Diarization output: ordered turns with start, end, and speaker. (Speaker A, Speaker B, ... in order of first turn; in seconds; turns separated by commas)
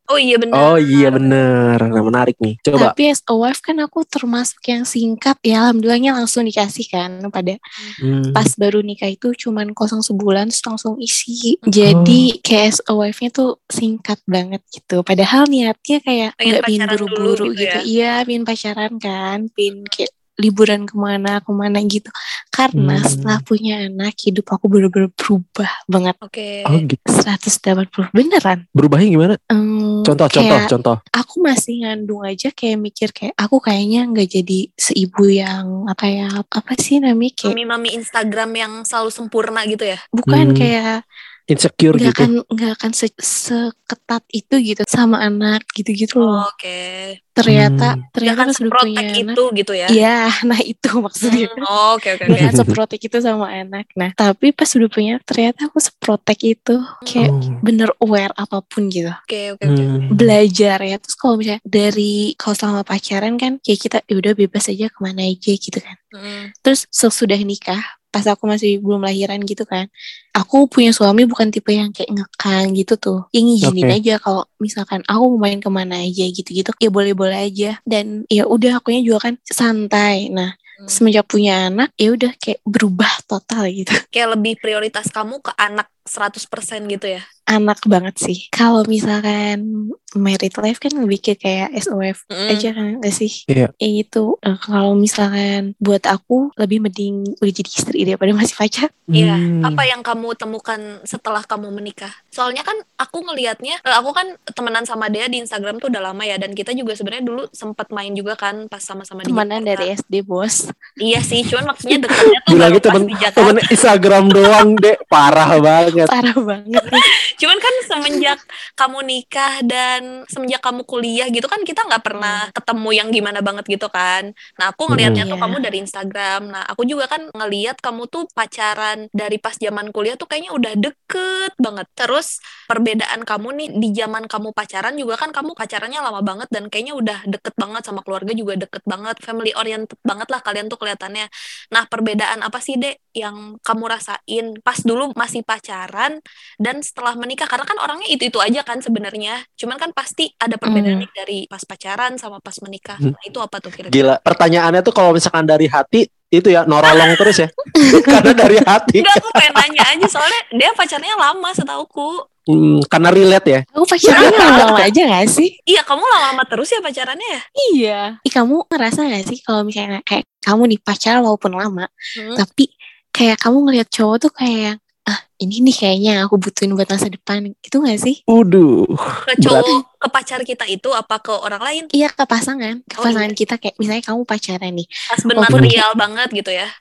Speaker A: 0.1-1.4, Speaker B: 0.5-2.9, Speaker C: 2.8-7.6, Speaker B: 8.0-8.5, Speaker C: 8.3-26.2, Speaker B: 11.9-12.3, Speaker A: 16.4-17.9, Speaker B: 22.8-23.4, Speaker A: 26.2-26.8, Speaker B: 26.7-27.0, Speaker C: 27.1-28.6, Speaker B: 28.8-29.4, Speaker C: 29.5-30.7, Speaker B: 30.1-31.0, Speaker C: 31.2-37.5, Speaker A: 37.4-40.0, Speaker C: 40.2-40.9, Speaker B: 40.3-40.7, Speaker B: 41.5-42.3, Speaker C: 41.9-46.4, Speaker A: 46.2-47.1, Speaker C: 47.4-49.4, Speaker B: 47.5-48.0, Speaker A: 48.2-49.9, Speaker C: 49.9-51.6, Speaker A: 51.2-52.4, Speaker C: 52.3-59.1, Speaker B: 52.3-52.8, Speaker B: 57.2-57.6, Speaker A: 59.3-60.0, Speaker B: 59.6-60.3, Speaker C: 60.1-66.0, Speaker A: 66.1-66.5, Speaker C: 66.6-69.9, Speaker C: 70.4-84.0, Speaker B: 73.6-74.0, Speaker A: 84.1-87.2, Speaker C: 87.5-89.6, Speaker C: 90.2-98.9, Speaker A: 92.3-92.7, Speaker B: 99.1-99.8, Speaker A: 99.1-109.9, Speaker C: 109.3-110.7, Speaker A: 111.0-113.7, Speaker B: 112.5-116.1, Speaker C: 116.1-117.0, Speaker A: 116.8-154.0, Speaker C: 122.1-122.5, Speaker B: 124.9-125.2, Speaker C: 125.1-125.6, Speaker C: 150.7-151.0, Speaker B: 153.9-160.1, Speaker A: 156.9-157.3, Speaker C: 157.8-158.1, Speaker A: 159.0-162.1, Speaker B: 162.5-164.8, Speaker C: 163.8-165.5, Speaker A: 164.1-164.9, Speaker A: 165.7-167.4, Speaker C: 167.6-178.2, Speaker B: 178.3-179.7, Speaker A: 179.3-181.9, Speaker C: 181.9-185.8, Speaker A: 183.0-183.3, Speaker A: 185.1-186.7